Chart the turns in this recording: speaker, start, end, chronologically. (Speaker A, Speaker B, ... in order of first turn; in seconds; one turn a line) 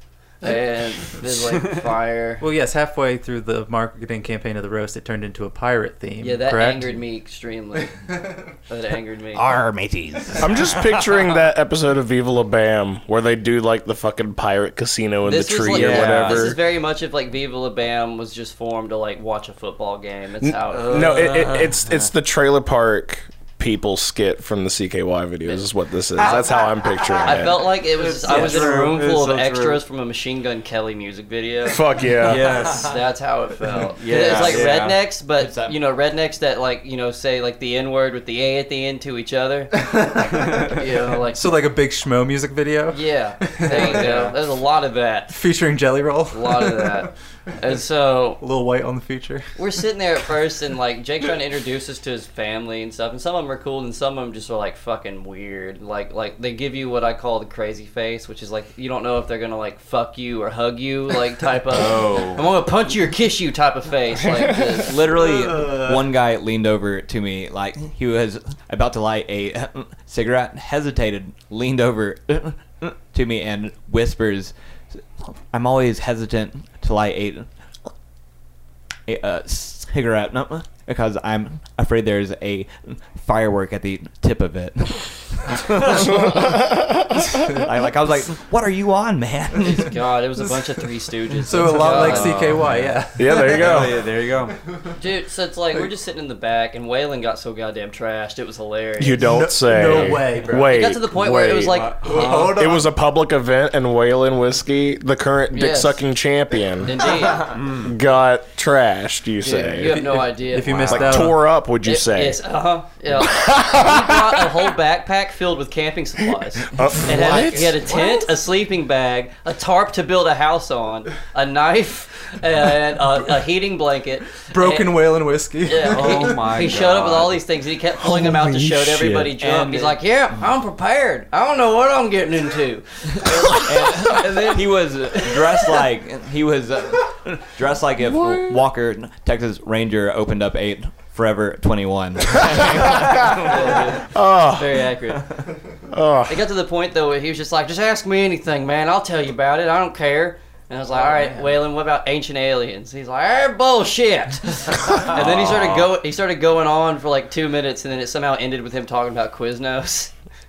Speaker A: 0.4-2.5
Speaker B: 2.4-7.0
Speaker A: 6.2-8.0
Speaker A: 8.7-9.5
Speaker C: 9.3-11.0
Speaker D: 10.4-16.6
Speaker A: 15.2-21.3
Speaker C: 15.8-16.1
Speaker E: 15.8-16.4
Speaker D: 20.4-27.7
Speaker E: 20.8-21.7
Speaker A: 27.2-31.9
Speaker E: 27.9-29.8
Speaker D: 31.6-32.7
Speaker E: 32.2-32.9
Speaker A: 32.7-41.6
Speaker E: 33.9-35.0
Speaker C: 34.3-34.9
Speaker C: 35.4-35.8
Speaker B: 39.9-40.7
Speaker B: 41.3-44.3
Speaker A: 42.9-45.4
Speaker E: 44.0-44.3
Speaker B: 45.3-47.1
Speaker A: 46.3-48.4
Speaker B: 48.4-49.8
Speaker A: 49.6-65.0
Speaker E: 61.7-62.4
Speaker C: 64.6-74.5
Speaker C: 75.2-77.5
Speaker C: 79.1-90.1
Speaker D: 86.5-86.9
Speaker A: 89.6-92.5
Speaker B: 91.5-93.8
Speaker E: 91.8-94.5
Speaker D: 93.2-94.0
Speaker A: 95.0-102.5
Speaker D: 99.0-110.2
Speaker B: 99.3-100.8
Speaker E: 101.7-102.6
Speaker B: 102.0-102.9
Speaker A: 105.5-106.0
Speaker A: 106.8-107.6
Speaker E: 107.5-107.9
Speaker A: 109.4-125.0
Speaker B: 110.5-111.5
Speaker D: 110.8-112.4
Speaker D: 113.2-114.4
Speaker D: 116.7-117.9
Speaker B: 124.5-126.5
Speaker A: 125.6-135.7
Speaker E: 125.9-127.4
Speaker D: 128.9-129.2
Speaker C: 129.3-130.0
Speaker C: 133.4-143.8
Speaker A: 143.5-145.3
Speaker D: 144.1-144.9
Speaker D: 145.9-146.4
Speaker A: 146.3-160.1
Speaker B: 151.0-151.5
Speaker C: 155.1-155.9